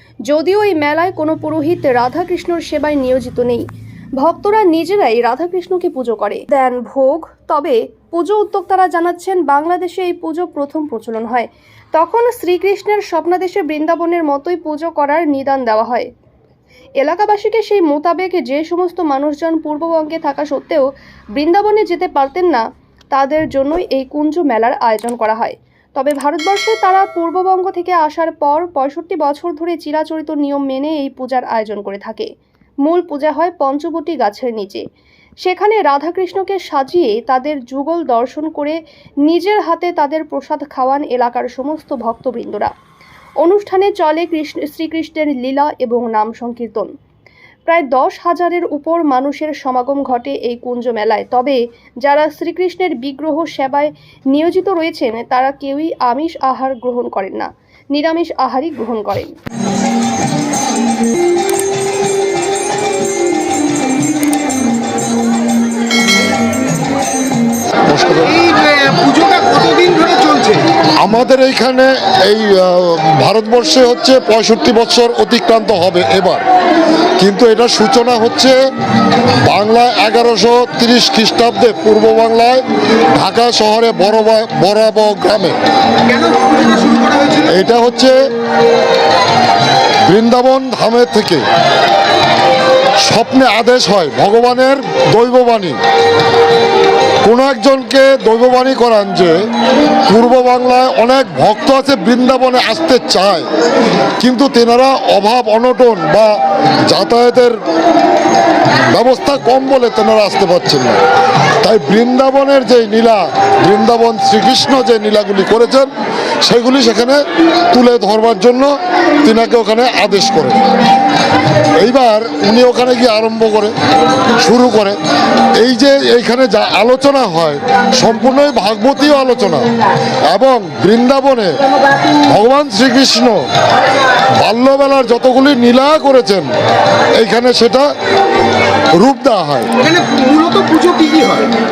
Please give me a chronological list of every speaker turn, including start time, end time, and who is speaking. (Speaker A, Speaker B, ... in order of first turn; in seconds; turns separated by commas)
Speaker A: 0.3-3.6, Speaker A: 4.2-16.1, Speaker A: 17.0-32.3, Speaker A: 32.8-34.8, Speaker A: 35.4-42.7, Speaker A: 43.4-46.9, Speaker A: 47.7-59.3, Speaker B: 67.9-68.3, Speaker C: 68.3-70.6, Speaker B: 71.0-76.4, Speaker B: 77.2-78.6, Speaker B: 79.4-85.6, Speaker C: 86.1-87.5, Speaker B: 87.5-88.2, Speaker B: 90.0-91.4, Speaker B: 93.0-95.8, Speaker B: 97.2-99.4, Speaker B: 100.0-103.5, Speaker B: 104.2-106.3, Speaker B: 106.9-107.5, Speaker B: 108.9-111.0, Speaker B: 111.6-115.9, Speaker B: 116.4-120.6, Speaker B: 121.8-123.7, Speaker B: 124.4-125.0, Speaker B: 125.6-129.7, Speaker B: 130.3-131.6, Speaker B: 132.2-133.4, Speaker B: 134.4-136.5, Speaker B: 137.1-137.9, Speaker B: 138.9-139.7, Speaker C: 139.8-141.5